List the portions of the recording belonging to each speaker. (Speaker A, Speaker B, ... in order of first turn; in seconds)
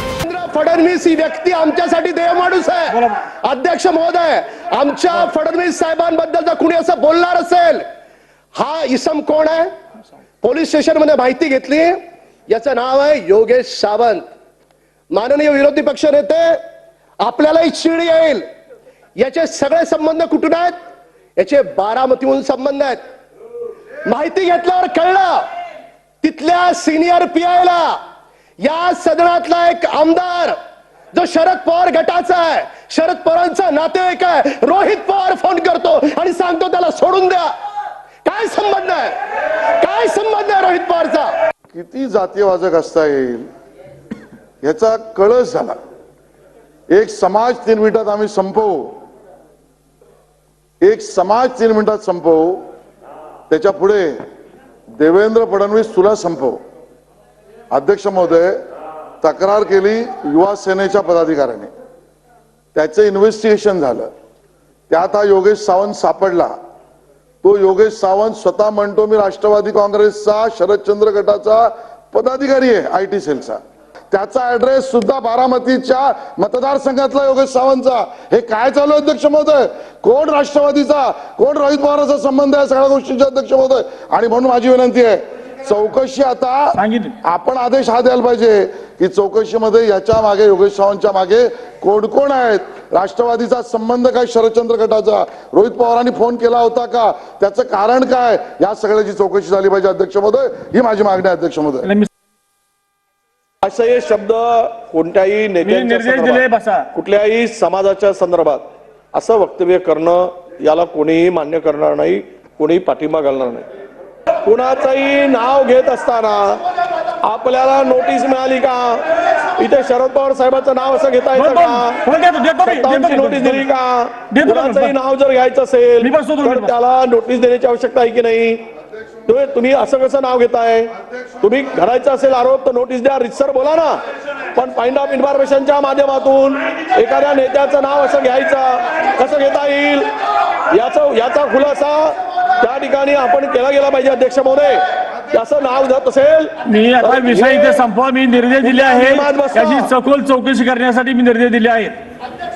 Speaker A: 0.2-7.8, 8.5-9.7, 10.4-14.2, 15.1-16.6, 17.2-18.4, 19.2-20.7, 21.4-23.0, 24.1-25.5, 26.2-28.0, 28.6-30.6, 31.1-37.5, 38.2-39.2, 39.7-41.3
Speaker B: 41.7-43.5, 44.6-45.8, 46.9-48.9, 50.8-52.6, 53.5-54.1, 55.0-56.6, 57.7-58.6, 59.2-61.7, 62.7-64.1, 64.9-66.5, 67.4-73.6, 74.1-101.9
Speaker C: 86.7-87.1, 101.8-102.1, 105.6-106.9, 121.3-123.6, 124.3-124.9, 126.0-126.7, 146.7-151.9
Speaker D: 103.6-113.7, 114.4-116.6, 117.2-122.0, 122.6-128.6, 129.2-134.0, 134.5-140.1, 140.7-147.8, 148.6-149.9